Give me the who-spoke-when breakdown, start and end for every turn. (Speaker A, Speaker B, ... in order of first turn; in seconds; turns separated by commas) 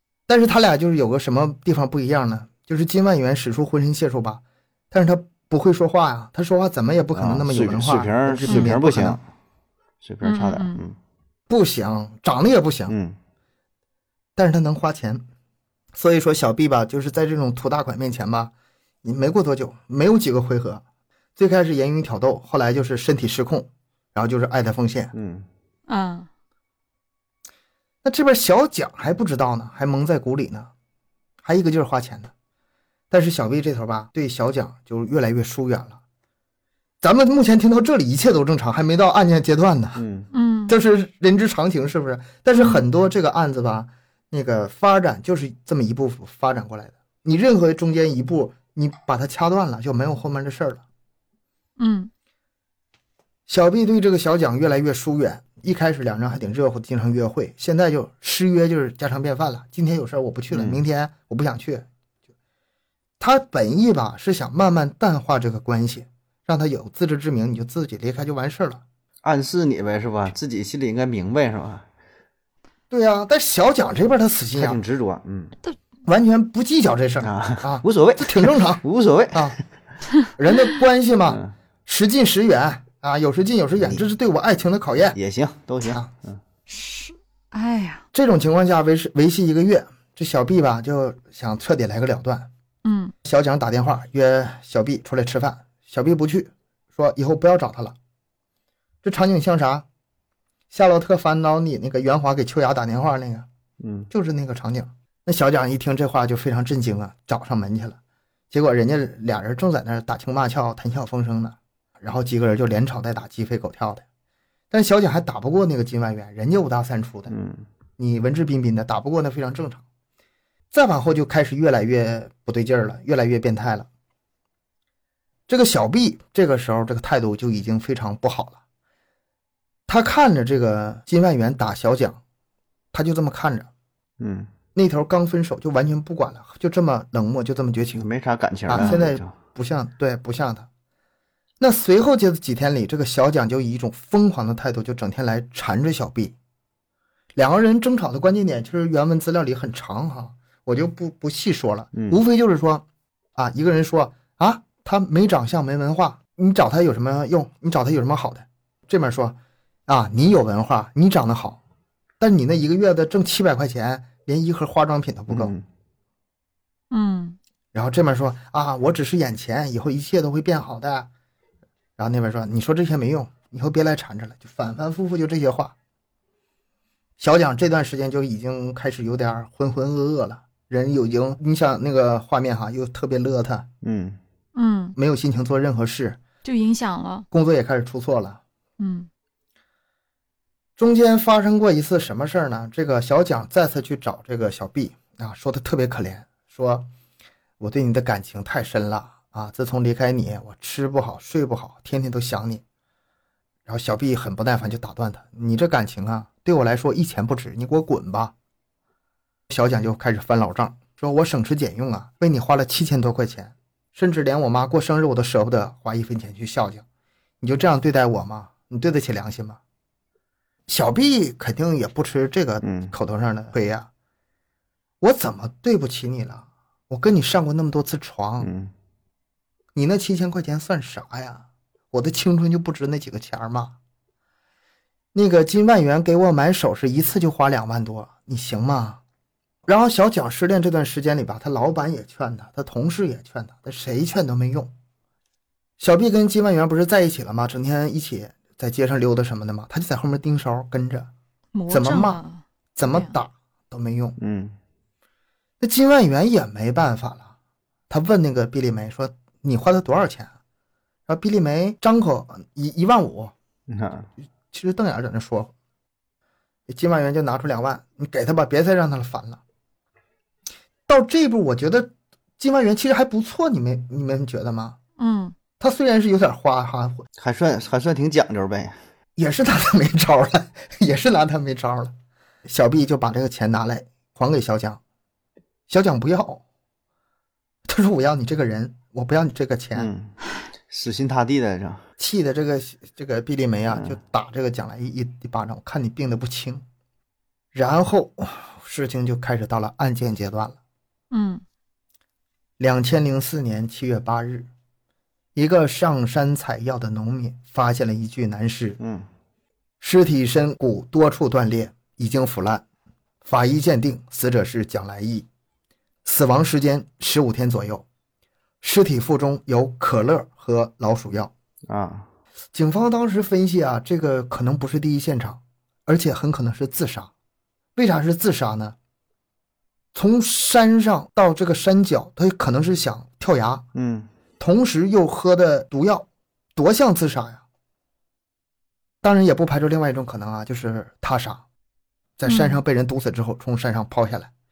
Speaker A: 0.3-9.2, Speaker B: 7.1-9.2, Speaker B: 10.0-11.0, Speaker C: 10.2-10.8, Speaker A: 11.5-12.9, Speaker B: 12.9-13.2, Speaker A: 14.3-15.2, Speaker A: 15.9-18.5, Speaker A: 19.0-20.8, Speaker A: 21.4-25.1, Speaker B: 25.1-25.5, Speaker C: 25.9-26.3, Speaker A: 28.0-30.7, Speaker A: 31.4-32.3, Speaker A: 33.1-36.0, Speaker A: 37.0-40.0, Speaker B: 40.0-40.3, Speaker C: 40.3-40.7, Speaker A: 40.7-50.8, Speaker C: 51.8-52.1, Speaker A: 53.5-61.9, Speaker B: 60.5-60.8, Speaker A: 63.2-68.8, Speaker B: 69.2-71.8, Speaker A: 72.9-74.8, Speaker B: 74.5-75.5, Speaker A: 76.0-79.6, Speaker B: 77.2-79.6, Speaker A: 80.3-85.2, Speaker B: 85.1-86.4, Speaker A: 85.8-86.1, Speaker C: 86.7-88.0, Speaker A: 88.1-92.5, Speaker C: 92.8-93.1, Speaker A: 93.2-97.9, Speaker A: 99.0-99.8, Speaker A: 100.7-103.5, Speaker B: 103.8-104.1, Speaker A: 104.1-108.0, Speaker A: 108.5-114.0, Speaker A: 114.7-117.3, Speaker B: 117.3-117.7, Speaker A: 118.0-119.8, Speaker A: 120.7-123.9, Speaker A: 125.5-128.6, Speaker A: 129.9-132.2, Speaker A: 132.9-133.7, Speaker B: 134.2-134.5, Speaker A: 134.7-138.1, Speaker B: 138.0-139.3, Speaker A: 138.7-140.7, Speaker A: 141.6-146.3, Speaker A: 147.3-152.8, Speaker A: 153.3-161.6, Speaker A: 162.2-165.5, Speaker B: 165.3-165.6, Speaker C: 166.9-167.4, Speaker A: 167.7-171.1, Speaker A: 172.0-175.7, Speaker A: 177.2-183.7, Speaker B: 183.8-184.2, Speaker C: 184.5-185.0, Speaker A: 185.0-186.2, Speaker C: 186.4-187.3, Speaker A: 187.3-188.4, Speaker C: 188.8-189.1, Speaker A: 190.8-196.9, Speaker A: 197.6-202.6, Speaker A: 203.7-208.3, Speaker A: 209.5-216.8, Speaker A: 217.4-219.6, Speaker A: 220.7-223.9, Speaker B: 222.6-222.9, Speaker A: 225.0-228.5, Speaker B: 228.4-228.7, Speaker A: 229.7-233.8, Speaker A: 235.1-239.0, Speaker A: 239.7-244.7, Speaker A: 245.8-251.1, Speaker C: 251.5-253.1, Speaker A: 251.7-252.2, Speaker A: 252.8-254.2, Speaker B: 254.2-254.6, Speaker A: 255.6-257.3, Speaker A: 257.9-260.3, Speaker A: 261.1-263.3, Speaker B: 263.7-264.1, Speaker A: 264.5-265.5, Speaker A: 266.7-269.4, Speaker A: 270.9-274.8, Speaker C: 275.0-275.3, Speaker A: 275.6-277.0, Speaker B: 277.2-278.8, Speaker A: 279.1-281.9, Speaker A: 282.4-284.8, Speaker A: 285.7-286.4, Speaker A: 287.7-289.9, Speaker B: 289.8-290.1, Speaker B: 290.7-291.8, Speaker A: 292.0-296.6, Speaker A: 297.5-300.6, Speaker C: 301.1-301.4, Speaker A: 302.6-304.5, Speaker A: 305.3-308.8, Speaker B: 308.8-309.1, Speaker A: 309.8-312.6, Speaker A: 313.2-315.2, Speaker A: 316.0-317.8, Speaker A: 318.6-321.3, Speaker B: 321.7-322.1, Speaker A: 322.5-327.1, Speaker A: 327.8-328.8, Speaker A: 329.9-333.6, Speaker B: 333.7-334.1, Speaker A: 334.4-337.4, Speaker A: 339.0-341.4, Speaker A: 342.2-344.3, Speaker C: 342.2-342.6